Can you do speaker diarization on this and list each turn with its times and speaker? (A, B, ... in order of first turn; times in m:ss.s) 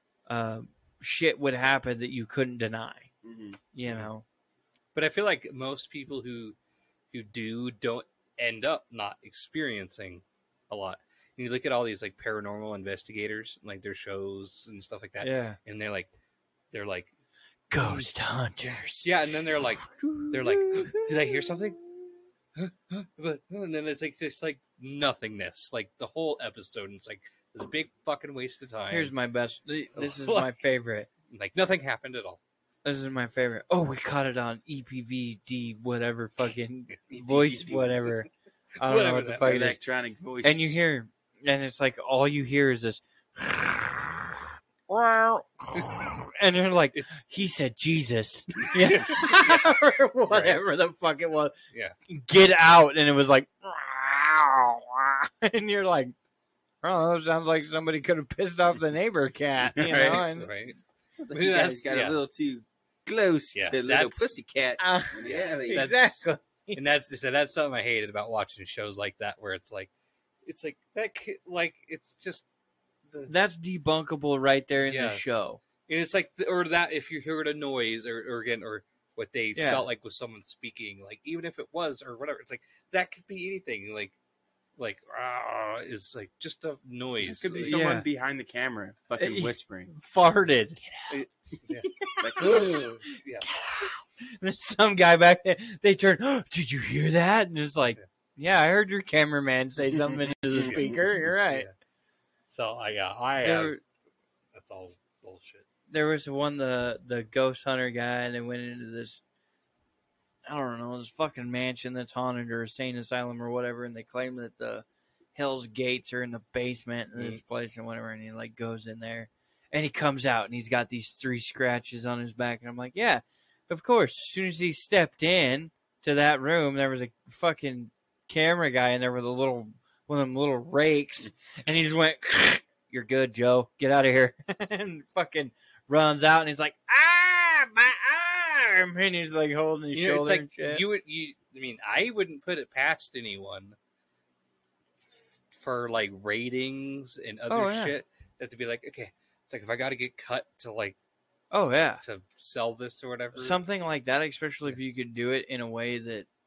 0:00.3-0:03.1 A
0:03.2-0:03.6 B
0:03.7-0:04.2 A
0:04.9-0:06.6 C
0:07.1-0:16.1 C
0:15.2-0:15.6 A
0:16.7-0:17.1 C
0:17.7-0:21.8 A
0:19.0-0:21.8 C
0:22.5-0:29.1 C
0:28.9-0:31.1 A
0:29.9-0:30.5 C
0:31.3-0:32.4 C
0:32.8-0:38.3 A
0:37.1-0:38.0 B
0:38.8-0:39.6 C
0:38.8-0:39.8 A
0:39.4-0:40.8 B
0:40.4-0:51.5 A
0:46.9-0:47.2 C
0:48.9-0:49.7 C
0:50.3-0:50.6 C
0:52.1-0:56.1 A
0:56.8-1:00.5 A
0:59.8-1:00.3 B
1:00.0-1:00.8 C
1:01.2-1:06.2 B
1:01.3-1:02.2 C
1:03.5-1:04.3 C
1:04.8-1:06.8 A
1:05.2-1:06.2 C
1:06.7-1:09.9 C
1:10.4-1:12.4 C
1:13.1-1:13.3 C
1:13.3-1:15.6 A
1:14.8-1:15.4 C
1:15.9-1:24.1 C
1:19.5-1:19.9 A
1:24.8-1:27.8 C
1:27.2-1:29.9 B
1:27.6-1:28.1 A
1:29.2-1:31.2 A
1:31.1-1:33.5 C
1:31.8-1:41.7 A
1:32.2-1:32.9 B
1:40.0-1:41.2 B
1:41.5-1:41.7 C
1:42.5-1:43.8 C
1:43.4-1:43.8 A
1:44.5-1:45.6 C
1:45.9-1:49.2 A
1:50.4-2:20.8 A
1:57.1-1:57.4 C
2:19.9-2:23.8 C
2:25.5-2:31.0 C
2:27.5-2:27.9 A
2:31.5-2:32.0 A
2:32.0-2:33.6 C
2:33.3-2:36.3 A